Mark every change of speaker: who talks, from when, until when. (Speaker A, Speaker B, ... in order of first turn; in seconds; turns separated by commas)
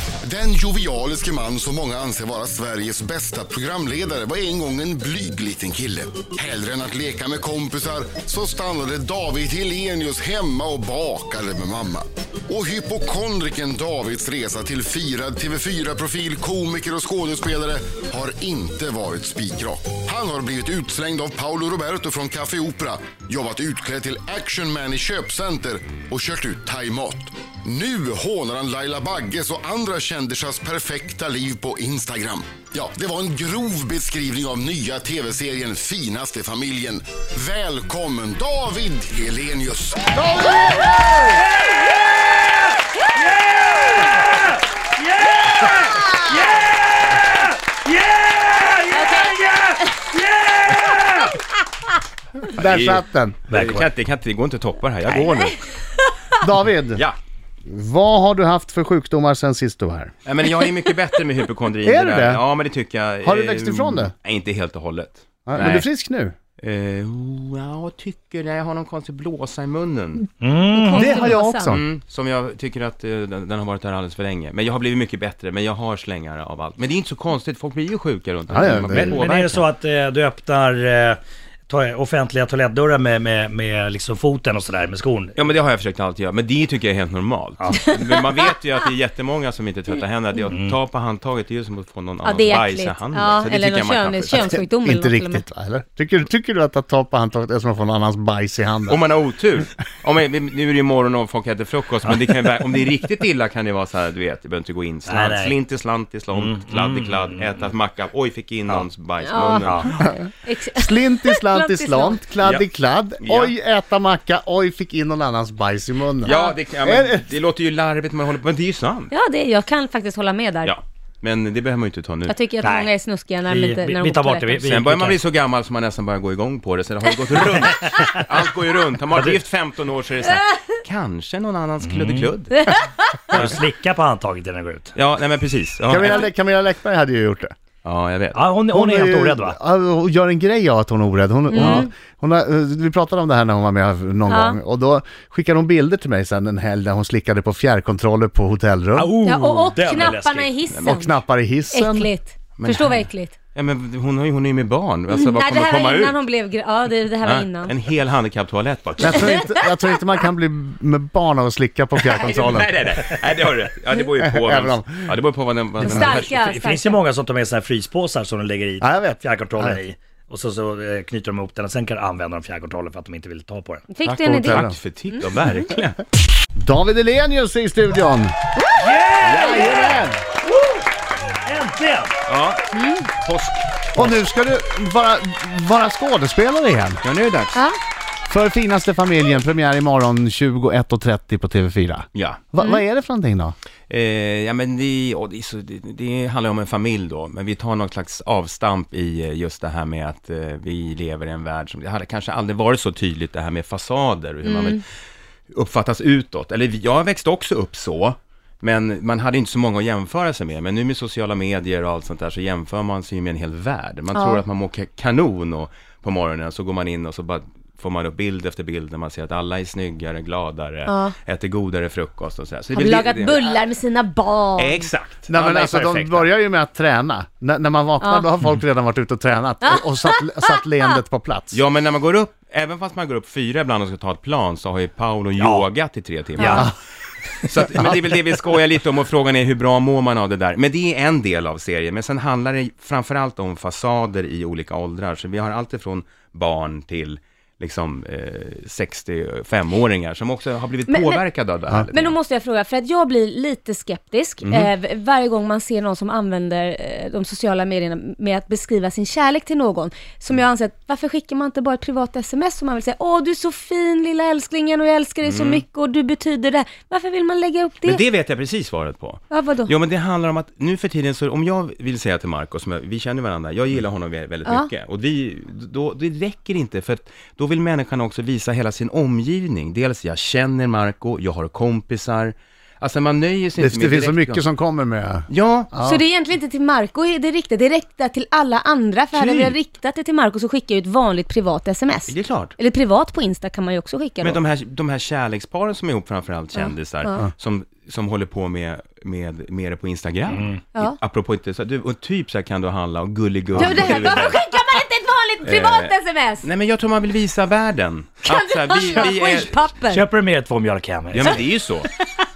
Speaker A: 0.2-40.3, Speaker B: 40.1-41.4, Speaker C: 40.5-51.3, Speaker D: 48.9-50.1, Speaker B: 52.5-53.5, Speaker E: 52.5-55.6, Speaker C: 53.5-53.8, Speaker B: 56.4-57.0, Speaker B: 57.7-60.1, Speaker E: 60.2-65.9, Speaker B: 61.8-62.4, Speaker B: 63.2-64.1, Speaker B: 65.5-66.3, Speaker E: 66.6-70.3, Speaker C: 70.4-71.1, Speaker D: 70.7-71.8, Speaker B: 70.9-71.8, Speaker E: 71.7-79.6, Speaker B: 78.5-79.2, Speaker C: 78.9-85.4, Speaker E: 85.4-94.6, Speaker C: 87.6-87.9, Speaker C: 90.5-90.8, Speaker D: 92.2-95.4, Speaker B: 94.5-99.0, Speaker E: 98.9-110.1, Speaker C: 105.1-105.6, Speaker C: 106.3-107.5, Speaker D: 109.2-112.2, Speaker B: 110.0-117.2, Speaker E: 112.4-112.7, Speaker E: 113.2-113.5, Speaker D: 116.2-116.5, Speaker E: 116.2-119.1, Speaker D: 119.1-120.8, Speaker E: 120.6-122.4, Speaker D: 122.3-124.6, Speaker C: 122.6-122.9, Speaker C: 123.5-125.2, Speaker E: 124.6-132.7, Speaker C: 129.1-129.4, Speaker C: 131.8-132.3, Speaker C: 133.3-134.9, Speaker E: 135.0-136.3, Speaker B: 135.9-137.5, Speaker E: 137.8-138.5, Speaker C: 138.3-139.6, Speaker B: 138.7-149.1, Speaker D: 141.5-141.9, Speaker D: 144.3-144.6, Speaker C: 149.0-150.5, Speaker D: 149.2-151.2, Speaker E: 150.7-151.0, Speaker B: 150.8-152.1, Speaker D: 151.7-153.3, Speaker E: 152.6-153.0, Speaker E: 153.5-156.2, Speaker D: 155.1-157.7, Speaker E: 157.2-159.5, Speaker B: 159.0-162.7, Speaker D: 159.1-159.7, Speaker E: 162.0-166.4, Speaker B: 164.2-165.1, Speaker D: 165.8-167.0, Speaker C: 166.0-173.8, Speaker B: 168.8-169.8, Speaker D: 173.9-175.4, Speaker E: 174.0-176.0, Speaker B: 174.3-174.8, Speaker B: 176.6-178.3, Speaker C: 178.8-180.8, Speaker E: 179.2-180.0, Speaker B: 179.3-180.2, Speaker C: 181.4-182.1, Speaker E: 182.3-182.6, Speaker D: 182.7-183.1, Speaker E: 183.2-184.2, Speaker B: 183.9-187.0, Speaker E: 187.0-187.6, Speaker B: 188.3-193.5, Speaker E: 192.2-192.6, Speaker E: 193.9-204.8, Speaker D: 204.4-204.8, Speaker E: 205.5-223.6, Speaker D: 214.1-214.4, Speaker D: 220.8-221.1, Speaker D: 222.7-224.9, Speaker E: 224.6-226.3, Speaker B: 225.3-231.6, Speaker D: 228.0-228.3, Speaker D: 229.6-230.6, Speaker E: 231.5-236.7, Speaker C: 235.4-235.7, Speaker D: 236.4-236.7, Speaker B: 236.4-236.7, Speaker E: 237.4-252.2, Speaker D: 250.9-251.2, Speaker D: 251.9-268.0, Speaker E: 254.4-254.7, Speaker E: 265.2-265.6, Speaker E: 267.8-284.5, Speaker D: 269.3-269.7, Speaker B: 283.6-286.0, Speaker E: 285.3-285.7, Speaker D: 285.8-294.4, Speaker E: 289.1-289.5, Speaker E: 292.1-292.6, Speaker E: 294.2-304.4, Speaker D: 296.6-297.2, Speaker C: 300.3-300.6, Speaker D: 303.6-306.5, Speaker E: 305.4-309.7, Speaker D: 308.2-310.1, Speaker C: 309.9-311.4, Speaker E: 311.1-311.9